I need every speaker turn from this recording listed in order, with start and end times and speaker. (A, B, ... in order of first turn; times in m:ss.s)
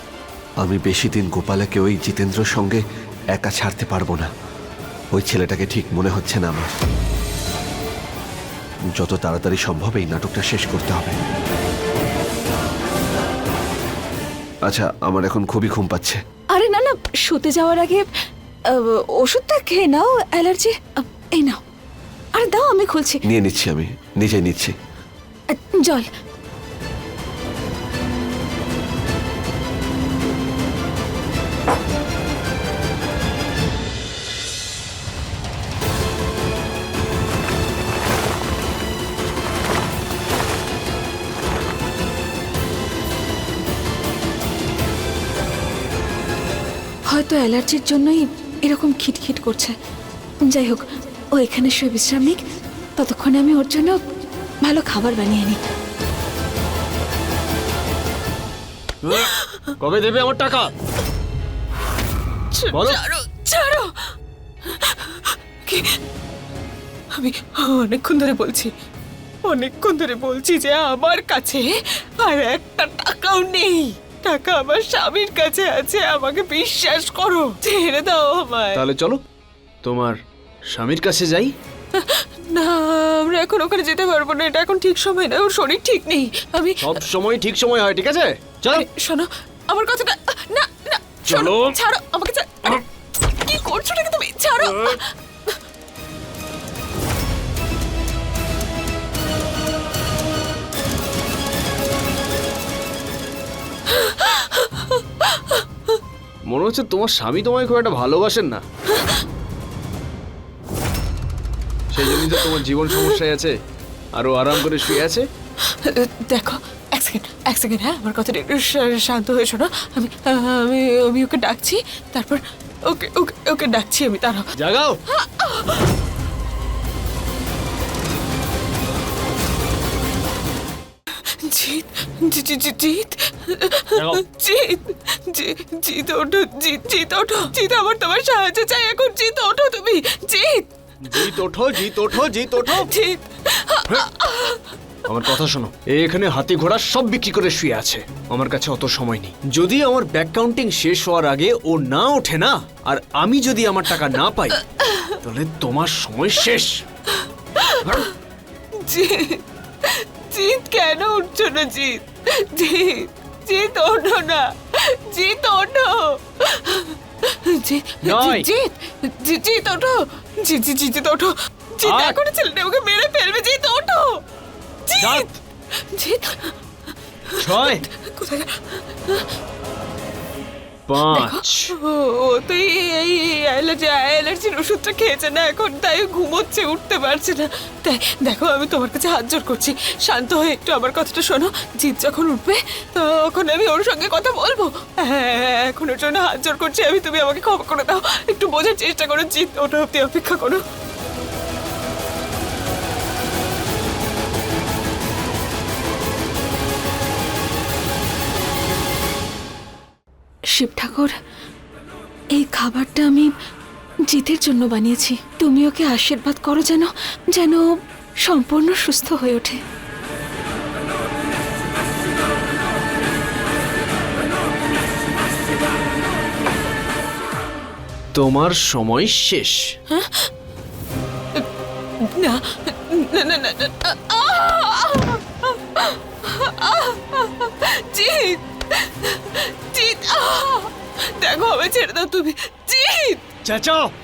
0:00.6-0:02.8 A
0:03.3-0:04.3 A
0:05.1-0:06.7 A
0:09.0-0:11.2 A
0:14.7-0:16.2 A
0:16.5-0:18.1 B
0:18.7-0:21.6 B
0:22.4-0:23.2 B
0:23.3-0:24.8 A
0:25.5-0:26.1 B
0:47.1-0:49.8 B
0:50.5-0:52.4 B
0:53.0-0:54.0 B
0:54.6-0:55.6 B
0:59.0-1:00.7 C
0:59.4-0:59.6 D
1:02.5-1:04.1 D
1:02.7-1:03.0 C
1:04.6-1:06.0 D
1:07.2-1:08.7 D
1:09.5-1:11.7 D
1:12.2-1:18.8 D
1:18.7-1:19.2 C
1:19.8-1:20.2 C
1:20.7-1:21.5 C
1:21.9-1:27.0 D
1:26.8-1:28.8 C
1:28.7-1:35.6 D
1:31.3-1:31.8 C
1:34.6-1:35.0 C
1:43.9-1:46.0 D
1:46.5-1:48.6 C
1:48.9-1:49.2 D
1:51.9-1:53.5 C
1:52.1-1:53.2 D
1:54.1-1:55.3 C
1:55.6-2:04.5 D
2:04.6-2:05.0 C
2:05.1-2:05.9 D
2:11.4-2:21.4 D
2:14.0-2:14.2 C
2:21.0-2:22.9 C
2:22.6-2:24.7 D
2:25.1-2:34.6 C
2:34.7-2:35.2 D
2:35.2-2:36.8 C
2:37.2-2:38.1 D
2:37.8-2:38.1 C
2:38.8-2:54.2 D
2:48.0-2:48.5 C
2:51.8-2:52.2 C
2:54.9-2:55.3 D
2:55.0-2:55.4 C
2:55.9-2:56.5 D
2:57.3-2:59.3 D
2:57.4-2:57.8 C
3:00.9-3:01.5 C
3:01.0-3:20.6 D
3:30.5-3:31.2 B
3:32.4-3:33.3 B
3:34.1-3:37.6 B
3:38.2-3:39.6 B
3:48.1-3:49.8 C
3:49.9-3:50.3 D
3:52.0-4:03.2 D
4:03.4-4:03.9 C